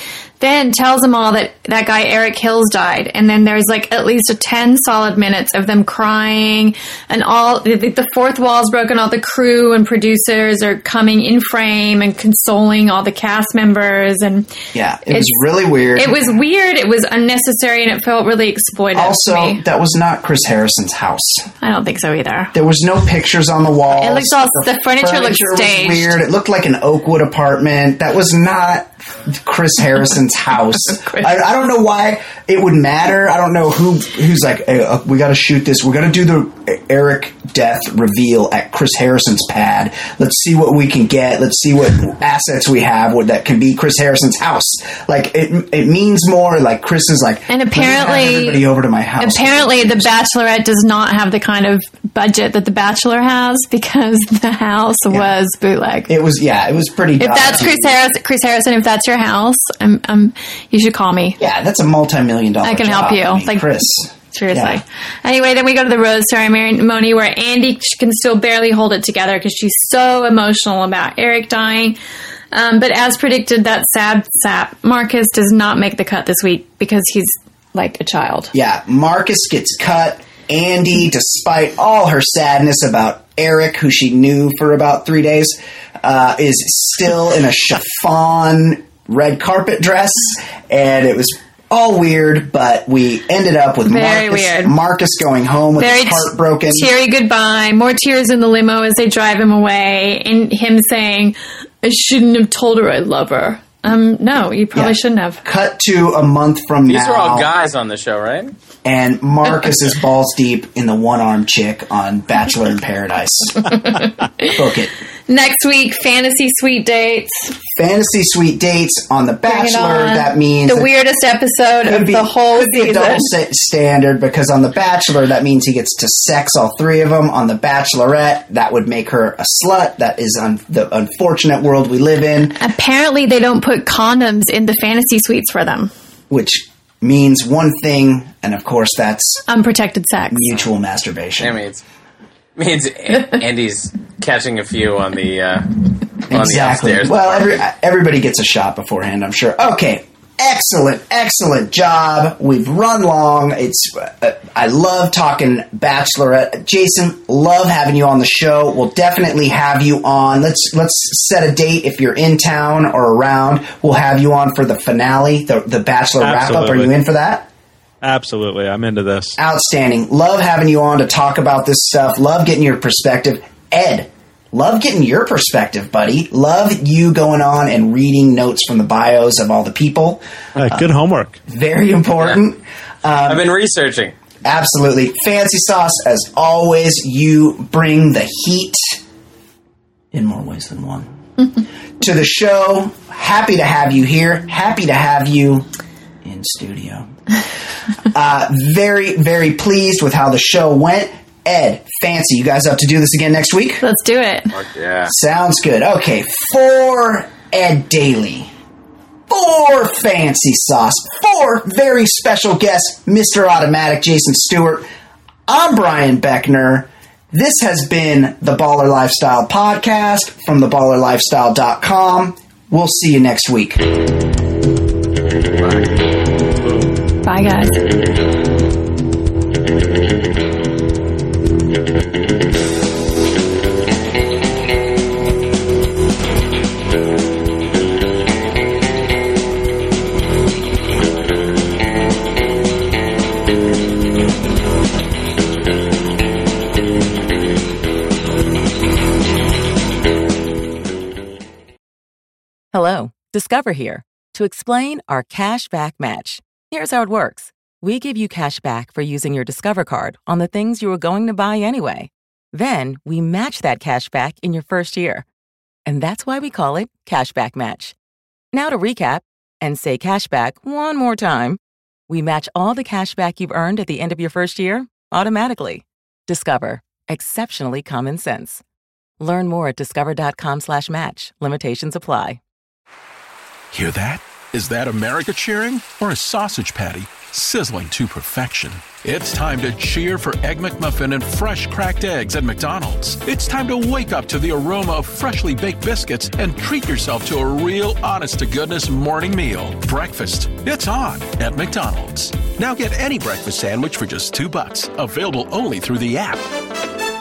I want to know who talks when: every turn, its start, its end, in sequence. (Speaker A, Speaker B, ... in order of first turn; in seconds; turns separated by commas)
Speaker A: 0.4-14.5, Speaker B: 14.7-16.3, Speaker A: 15.9-19.6, Speaker B: 18.9-21.5, Speaker A: 21.6-22.5, Speaker B: 22.5-50.1, Speaker A: 23.9-26.2, Speaker A: 30.8-31.4, Speaker A: 47.5-48.6, Speaker A: 49.2-56.1, Speaker B: 56.1-58.0, Speaker A: 57.2-61.4, Speaker B: 61.4-64.8, Speaker A: 62.6-63.7, Speaker A: 64.3-72.0, Speaker A: 72.5-78.5, Speaker B: 78.5-96.9, Speaker A: 93.9-94.7, Speaker A: 95.8-105.4, Speaker B: 104.7-107.5, Speaker C: 106.9-108.5, Speaker B: 108.8-113.8, Speaker A: 113.6-114.7, Speaker B: 114.4-114.9, Speaker A: 115.3-117.5, Speaker B: 117.7-120.9, Speaker A: 119.5-123.3, Speaker B: 121.8-132.6, Speaker A: 132.6-135.9, Speaker B: 136.3-139.4, Speaker A: 139.5-140.4, Speaker B: 140.3-141.6, Speaker C: 141.4-141.8, Speaker C: 142.6-147.6, Speaker B: 146.3-167.5, Speaker D: 166.2-166.9, Speaker D: 168.0-169.4, Speaker B: 169.4-180.9, Speaker D: 180.6-181.4, Speaker B: 181.5-183.4, Speaker C: 183.2-184.1, Speaker B: 184.4-189.0, Speaker B: 190.1-191.1, Speaker B: 192.0-195.7, Speaker B: 196.2-197.1, Speaker B: 198.1-203.8, Speaker A: 203.8-204.5, Speaker C: 204.5-205.1, Speaker B: 205.1-208.5, Speaker B: 209.3-214.9, Speaker B: 215.5-223.8, Speaker A: 227.2-227.8, Speaker E: 252.7-265.2, Speaker E: 265.9-267.9, Speaker E: 268.5-278.6, Speaker E: 279.2-282.4, Speaker F: 283.7-306.4